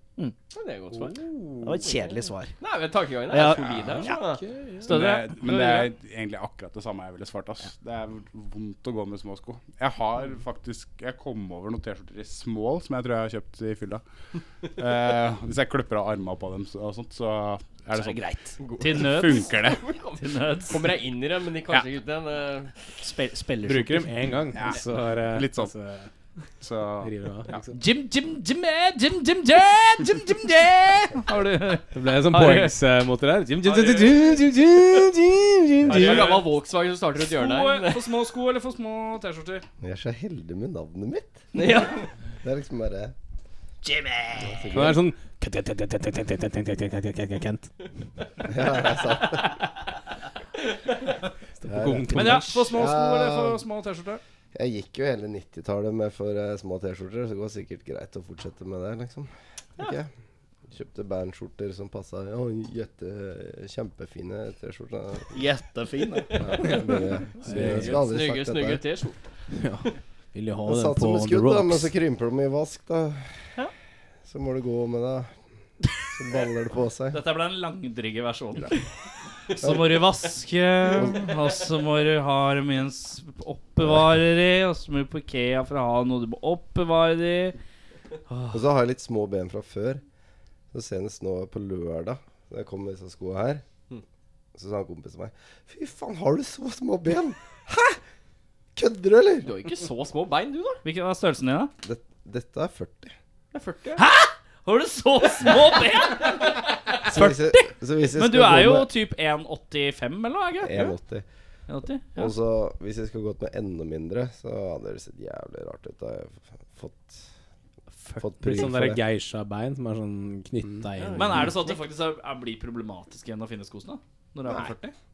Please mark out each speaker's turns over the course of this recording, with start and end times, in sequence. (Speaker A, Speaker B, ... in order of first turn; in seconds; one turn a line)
Speaker A: 0.5-1.2
Speaker B: 0.9-1.9
Speaker C: 1.6-2.6
Speaker A: 2.6-4.4
Speaker C: 3.3-4.2
Speaker B: 3.7-5.0
Speaker D: 4.8-14.0
Speaker E: 4.8-5.9
Speaker D: 14.7-18.2
Speaker C: 17.9-18.6
Speaker A: 18.6-22.7
Speaker E: 18.8-19.5
Speaker D: 19.0-19.9
Speaker E: 20.2-20.9
Speaker C: 23.0-24.1
Speaker B: 23.6-26.1
Speaker D: 24.5-25.7
Speaker D: 26.6-27.7
Speaker B: 27.0-27.7
Speaker E: 27.7-32.7
Speaker B: 31.9-36.4
Speaker E: 33.6-34.3
Speaker E: 35.9-36.5
Speaker A: 35.9-38.1
Speaker E: 37.1-39.6
Speaker F: 39.8-41.5
Speaker A: 41.5-41.9
Speaker F: 42.4-43.1
Speaker C: 43.8-44.7
Speaker F: 44.4-45.0
Speaker B: 44.7-47.7
Speaker F: 48.4-49.6
Speaker B: 51.6-52.7
Speaker F: 51.6-53.6
Speaker E: 52.1-54.2
Speaker F: 54.5-60.1
Speaker F: 60.7-65.3
Speaker C: 65.3-66.7
Speaker F: 66.3-68.8
Speaker B: 66.6-68.0
Speaker A: 67.5-69.2
Speaker B: 69.5-71.9
Speaker F: 70.6-73.5
Speaker F: 74.2-75.3
Speaker F: 76.1-77.2
Speaker E: 77.1-78.8
Speaker E: 79.5-87.5
Speaker F: 79.6-79.9
Speaker F: 88.5-90.0
Speaker F: 90.7-93.6
Speaker F: 94.5-98.0
Speaker F: 98.7-99.5
Speaker A: 99.4-100.8
Speaker E: 100.8-101.7
Speaker F: 101.8-103.1
Speaker A: 103.5-104.0
Speaker E: 104.0-110.8
Speaker F: 107.0-108.9
Speaker F: 110.6-111.2
Speaker E: 111.7-112.3
Speaker F: 112.1-117.2
Speaker F: 118.2-119.0
Speaker B: 118.4-121.5
Speaker A: 121.0-121.7
Speaker E: 121.1-124.9
Speaker F: 124.5-124.7